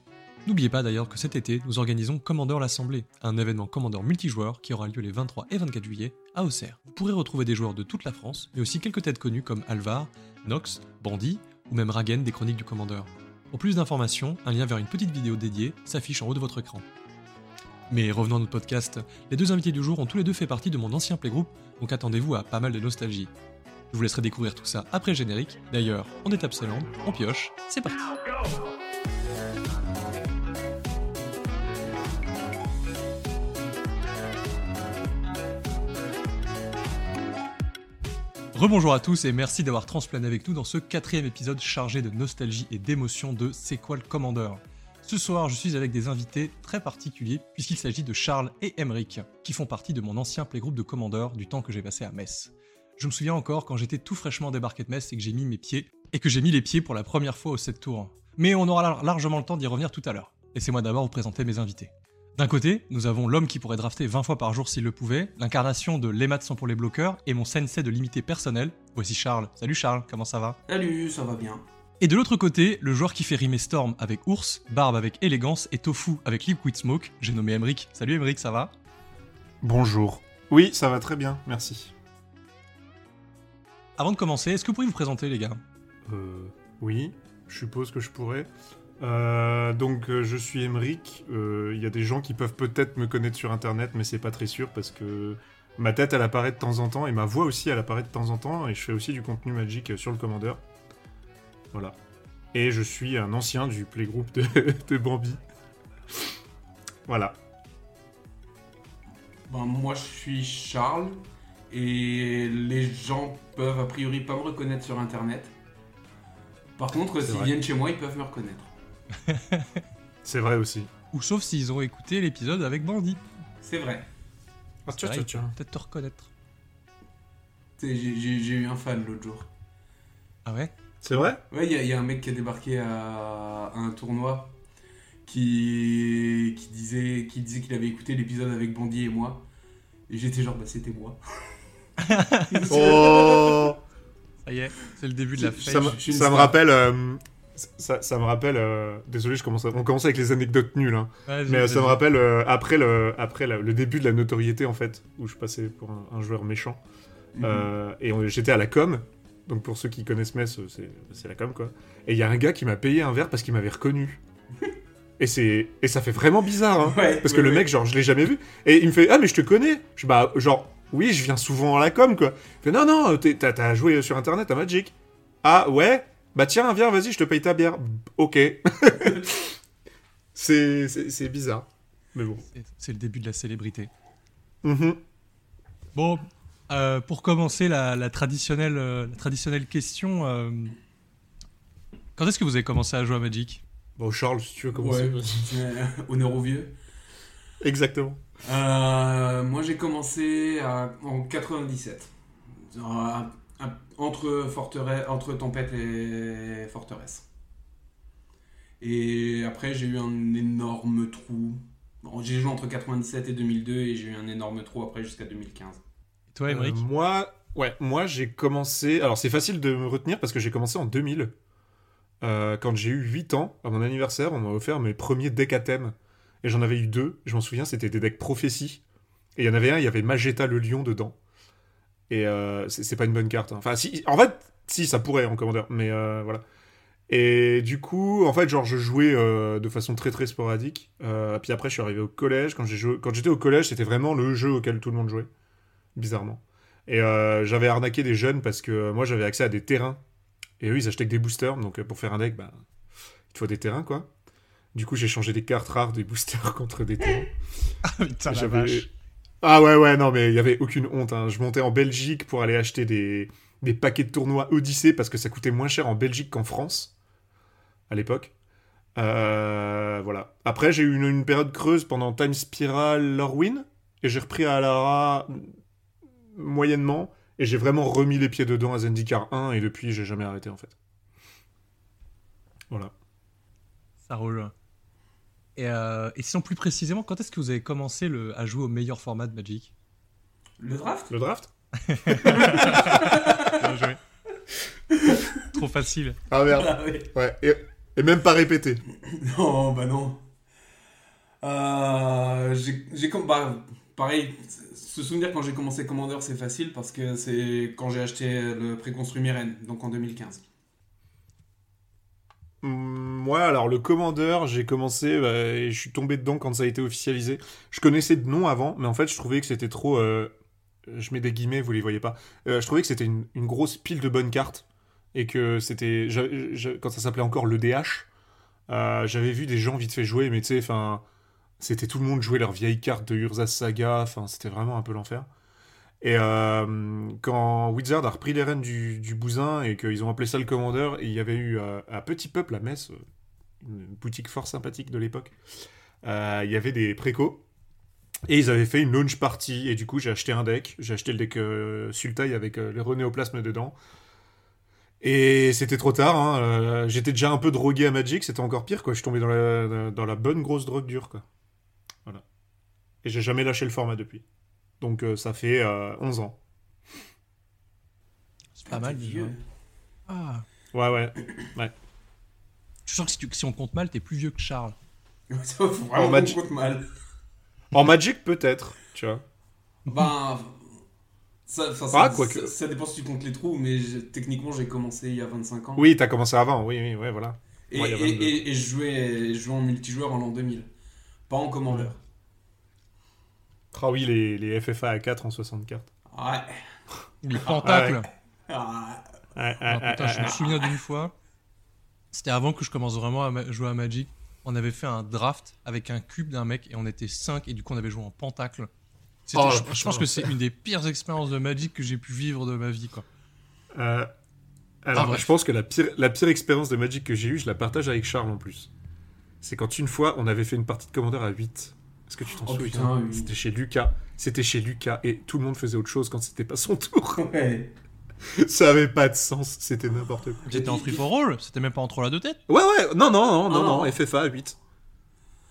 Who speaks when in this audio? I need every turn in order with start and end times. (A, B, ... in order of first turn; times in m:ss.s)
0:00.5-0:16.9 A
0:17.9-0:23.3 A
0:23.9-0:28.1 A
0:38.5-1:10.6 A
1:10.7-1:11.6 B
1:12.0-1:18.7 A
1:19.6-1:21.9 C
1:24.0-1:25.6 A
1:26.1-1:28.5 C
1:29.0-1:40.6 C
1:42.5-1:45.4 C
1:47.1-1:47.4 C
1:49.5-1:51.2 B
1:51.7-1:55.5 B
1:56.8-1:58.7 B
1:57.2-1:57.5 C
1:59.3-1:59.8 A
2:00.2-2:00.9 C
2:01.1-2:03.2 A
2:03.6-2:04.1 B
2:04.9-2:05.5 C
2:04.9-2:06.3 A
2:07.8-2:09.5 B
2:10.4-2:10.8 A
2:11.0-2:11.4 C
2:11.5-2:14.6 B
2:15.2-2:19.5 B
2:20.1-2:21.2 B
2:22.0-2:22.6 A
2:22.5-2:23.8 B
2:22.7-2:23.8 C
2:24.4-2:26.0 A
2:25.4-2:26.6 B
2:25.6-2:36.8 C
2:31.3-2:32.0 A
2:37.4-2:37.7 B
2:37.4-2:44.2 C
2:45.2-2:59.6 C
2:46.8-2:47.7 B
3:00.4-3:02.4 C
3:02.5-3:03.9 A
3:04.6-3:05.0 C
3:06.0-3:10.8 A
3:12.2-3:13.6 A
3:14.0-3:15.6 C
3:14.7-3:16.8 B
3:17.6-3:18.2 C
3:18.4-3:22.1 B
3:22.7-3:27.2 B
3:28.8-3:35.8 B
3:36.3-3:36.8 A
3:36.5-3:41.3 C
3:42.2-3:48.8 C
3:49.4-3:51.2 C
3:52.1-3:56.4 C
3:57.1-4:05.3 C
4:06.0-4:10.0 C
4:10.6-4:12.6 C
4:13.3-4:14.1 C
4:14.7-4:17.3 C
4:17.8-4:18.9 A
4:18.3-4:18.9 C
4:19.4-4:26.9 C
4:27.9-4:28.3 C
4:29.0-4:35.5 C
4:36.3-4:40.8 C
4:44.0-4:44.5 A
4:45.6-4:49.7 A
4:50.6-4:51.1 B
4:51.1-4:51.5 C
4:51.8-4:54.0 A
4:52.2-4:53.6 B
4:52.6-4:53.1 C
4:54.9-4:55.4 B
4:55.4-4:56.2 A
4:56.3-4:58.8 C
4:56.5-4:57.1 B
4:59.0-5:00.2 B
5:01.4-5:10.4 B
5:12.6-5:20.3 C
5:20.9-5:28.1 C
5:28.7-5:31.0 C
5:31.6-5:35.3 C
5:36.0-5:43.0 C
5:43.6-5:45.4 C
5:46.0-5:47.4 C
5:48.3-5:53.8 C
5:55.0-6:01.3 C
6:03.0-6:04.2 C
6:04.8-6:06.4 C
6:08.6-6:09.4 A
6:08.7-6:09.4 B
6:10.1-6:10.4 A
6:10.7-6:11.7 C
6:12.9-6:14.8 A
6:15.3-6:16.9 B
6:16.0-6:16.4 C
6:17.7-6:19.2 C
6:19.9-6:20.7 B
6:21.5-6:25.9 B
6:21.9-6:22.5 C
6:25.8-6:28.4 C
6:27.7-6:30.7 B
6:31.3-6:32.0 B
6:33.7-6:35.9 C
6:36.1-6:36.6 B
6:37.2-6:38.1 A
6:37.4-6:37.7 B
6:37.6-6:38.0 C
6:38.5-6:39.1 B
6:39.4-6:40.4 C
6:39.7-6:41.1 A
6:40.2-6:40.7 B
6:42.1-6:48.7 A
6:49.3-6:53.1 A
6:49.4-6:50.3 C
6:53.7-6:54.1 C
6:54.8-6:58.7 C
6:55.0-6:55.3 A
6:59.4-7:07.2 C
7:02.4-7:03.3 B
7:07.2-7:07.7 B
7:08.3-7:10.5 C
7:10.4-7:11.0 B
7:10.5-7:12.4 A
7:12.5-7:14.6 C
7:13.5-7:14.0 B